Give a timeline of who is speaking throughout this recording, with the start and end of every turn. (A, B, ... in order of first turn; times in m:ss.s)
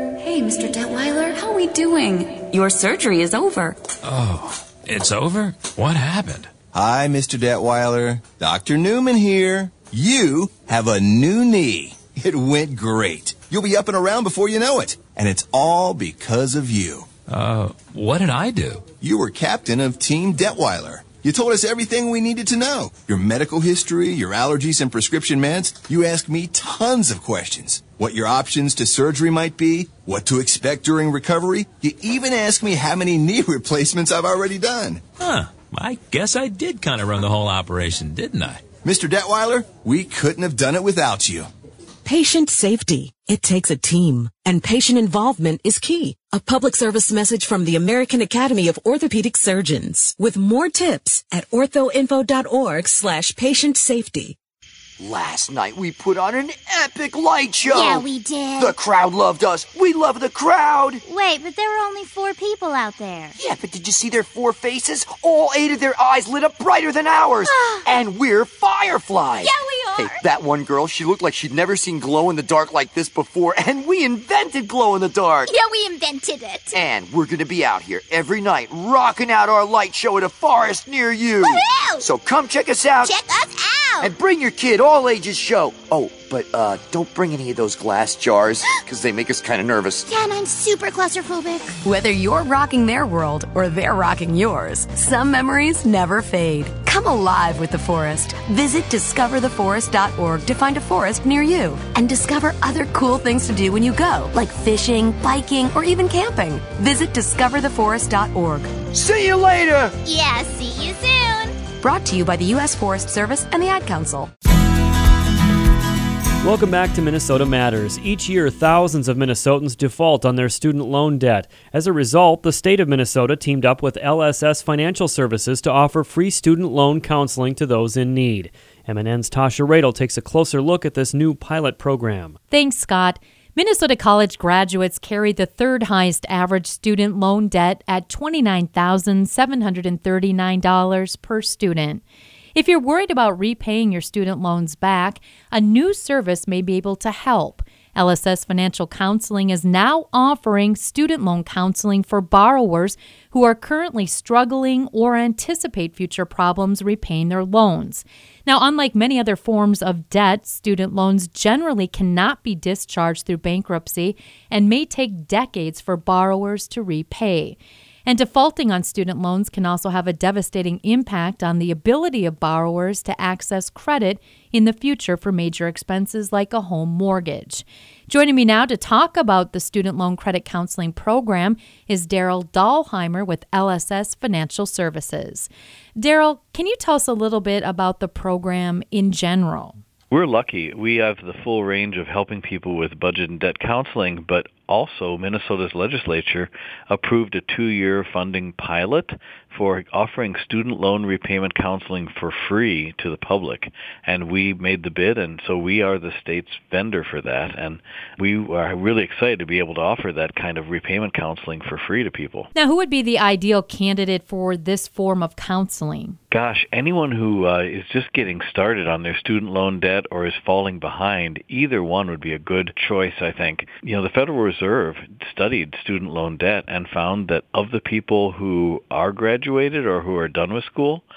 0:00.2-0:03.8 A
0:04.0-0:06.5 B
0:06.7-0:17.1 C
0:17.3-0:18.9 B
0:19.0-0:35.1 C
0:35.2-0:38.7 B
0:38.8-0:41.5 C
0:42.0-0:54.4 D
0:55.0-1:01.0 E
0:57.7-0:58.7 F
1:01.0-1:03.4 F
1:03.4-1:15.5 E
1:07.4-1:07.9 F
1:09.4-1:10.2 F
1:15.5-1:16.7 F
1:16.7-1:23.3 E
1:21.4-1:22.0 F
1:23.0-1:24.1 F
1:24.0-1:30.1 E
1:30.1-1:31.7 F
1:31.8-1:48.8 A
1:48.9-1:50.0 E
1:50.0-1:51.6 F
1:51.8-1:54.3 A
1:56.4-2:12.4 G
2:12.5-2:22.0 H
2:22.5-3:09.8 H
3:10.1-3:32.5 I
3:32.6-3:36.2 H
3:36.3-3:51.0 I